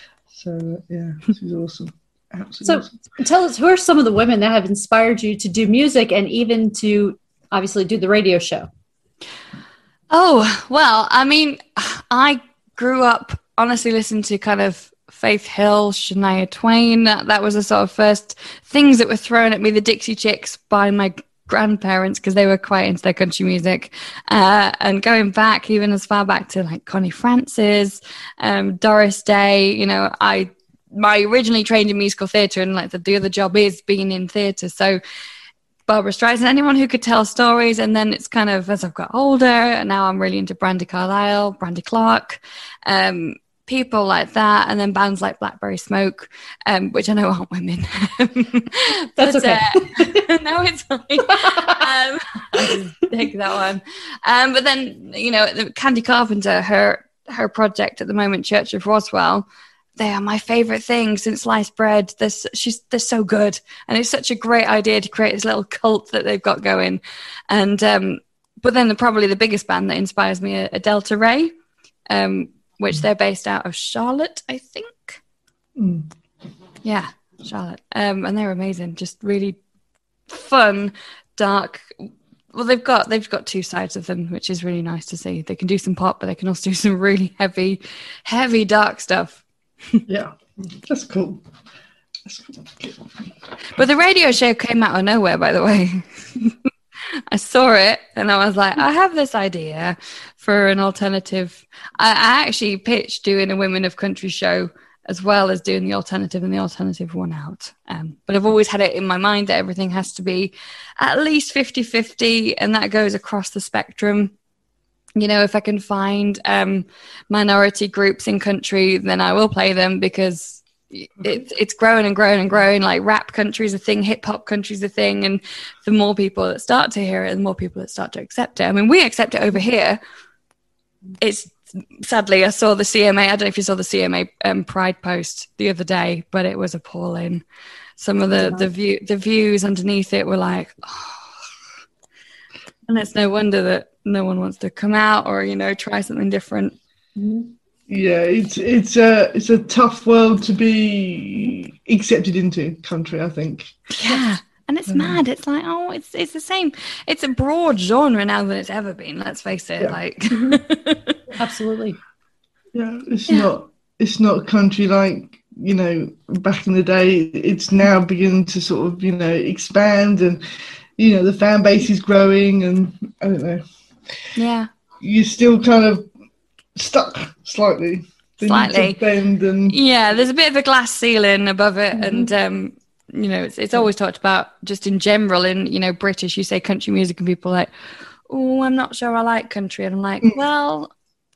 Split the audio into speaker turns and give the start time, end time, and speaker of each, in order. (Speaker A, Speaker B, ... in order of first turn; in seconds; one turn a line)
Speaker A: 0.3-2.9
Speaker B: 2.6-8.7
Speaker C: 10.1-35.0
Speaker C: 35.9-71.5
Speaker B: 49.2-50.2
Speaker B: 51.3-51.7
Speaker C: 72.1-75.2
Speaker A: 75.8-76.1
Speaker C: 76.8-79.6
Speaker C: 80.3-89.4
Speaker A: 90.1-91.4
Speaker A: 92.2-93.2
Speaker C: 93.7-96.7
Speaker C: 97.3-114.3
Speaker C: 115.2-130.0
Speaker C: 131.2-137.4
Speaker C: 138.0-141.3
Speaker C: 142.8-146.8
Speaker B: 147.2-147.5
Speaker A: 147.9-154.2
Speaker C: 153.9-161.2
Speaker A: 154.9-155.2
Speaker B: 161.4-162.0
Speaker A: 162.7-170.4
Speaker A: 171.0-173.6
Speaker C: 174.3-174.7
Speaker A: 175.0-176.1
Speaker A: 176.7-179.8
Speaker C: 178.4-179.0
Speaker C: 179.7-187.7
Speaker A: 181.9-182.3
Speaker C: 188.3-190.9